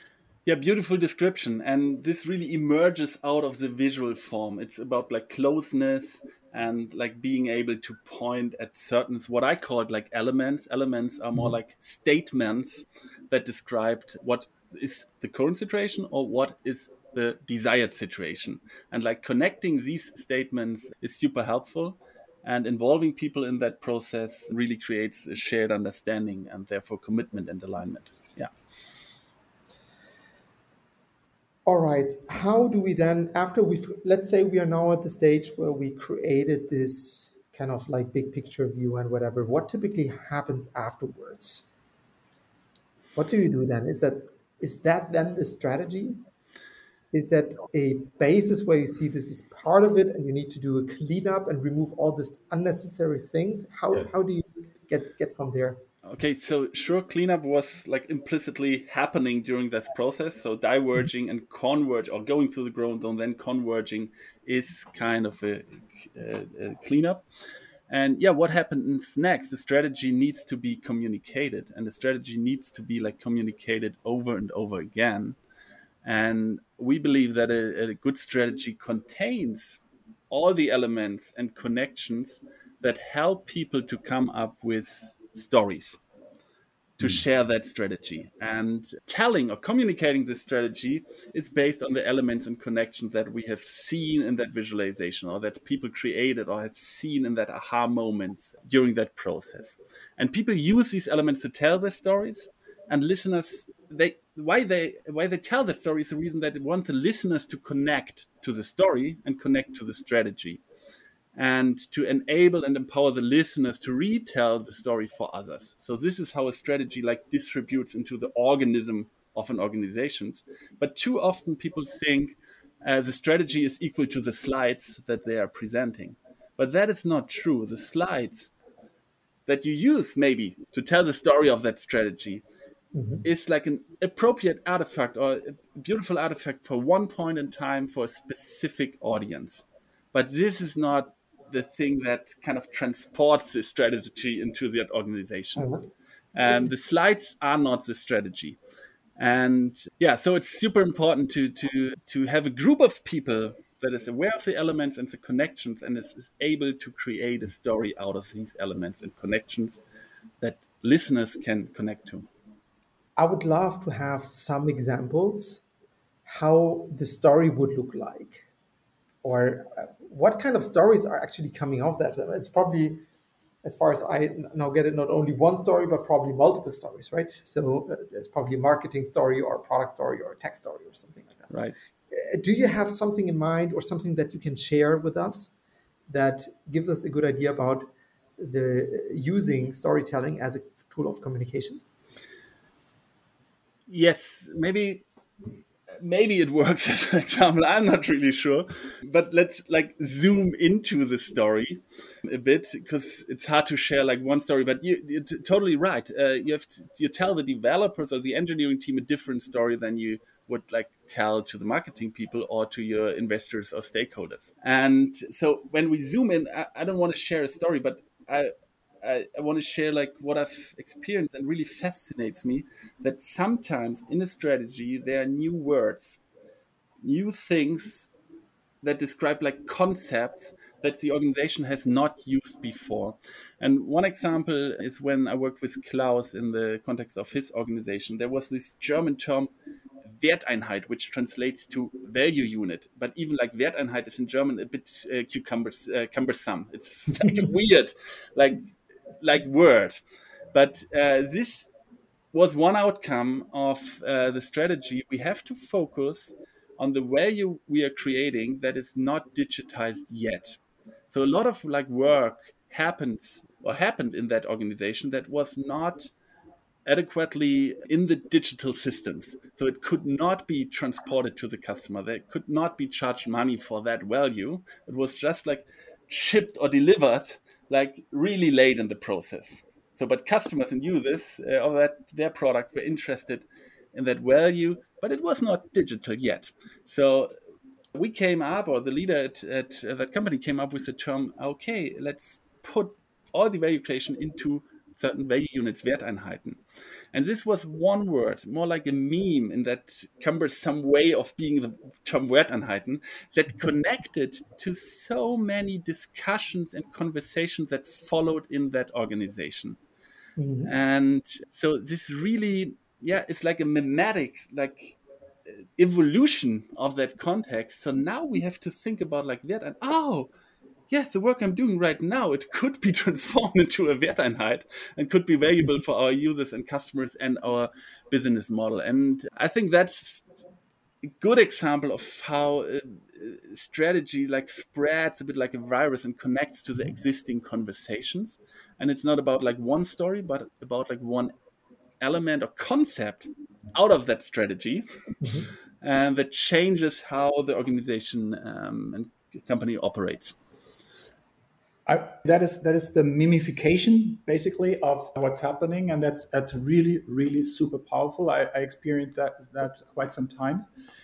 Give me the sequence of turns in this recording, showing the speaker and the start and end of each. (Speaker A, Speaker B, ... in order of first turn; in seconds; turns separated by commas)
Speaker A: 0.5-28.5, Speaker B: 31.6-41.6, Speaker B: 43.1-46.2, Speaker B: 47.1-55.8, Speaker A: 56.0-67.2, Speaker A: 67.9-75.4, Speaker A: 76.0-86.0, Speaker A: 87.0-110.6, Speaker A: 111.3-128.5, Speaker A: 129.5-132.4, Speaker B: 132.9-133.2, Speaker A: 133.2-145.7, Speaker B: 145.6-145.8, Speaker A: 146.3-148.6, Speaker A: 149.2-159.8, Speaker A: 160.4-162.3, Speaker B: 163.2-165.6, Speaker B: 166.2-168.4, Speaker B: 169.2-173.0, Speaker B: 173.6-181.5, Speaker A: 181.5-181.7, Speaker B: 182.1-185.5, Speaker B: 186.1-191.8, Speaker A: 193.9-195.0, Speaker A: 195.9-226.2, Speaker A: 227.0-228.1, Speaker A: 228.8-239.5, Speaker A: 240.1-250.0, Speaker A: 250.5-251.7, Speaker A: 252.3-260.6, Speaker A: 261.1-266.1, Speaker A: 266.8-287.3, Speaker A: 287.9-296.6, Speaker A: 297.1-309.8, Speaker B: 310.4-310.7, Speaker A: 310.6-320.3, Speaker A: 320.9-330.2, Speaker A: 331.1-341.3, Speaker A: 342.0-344.8, Speaker B: 345.2-345.5, Speaker A: 345.8-350.4, Speaker C: 351.9-360.7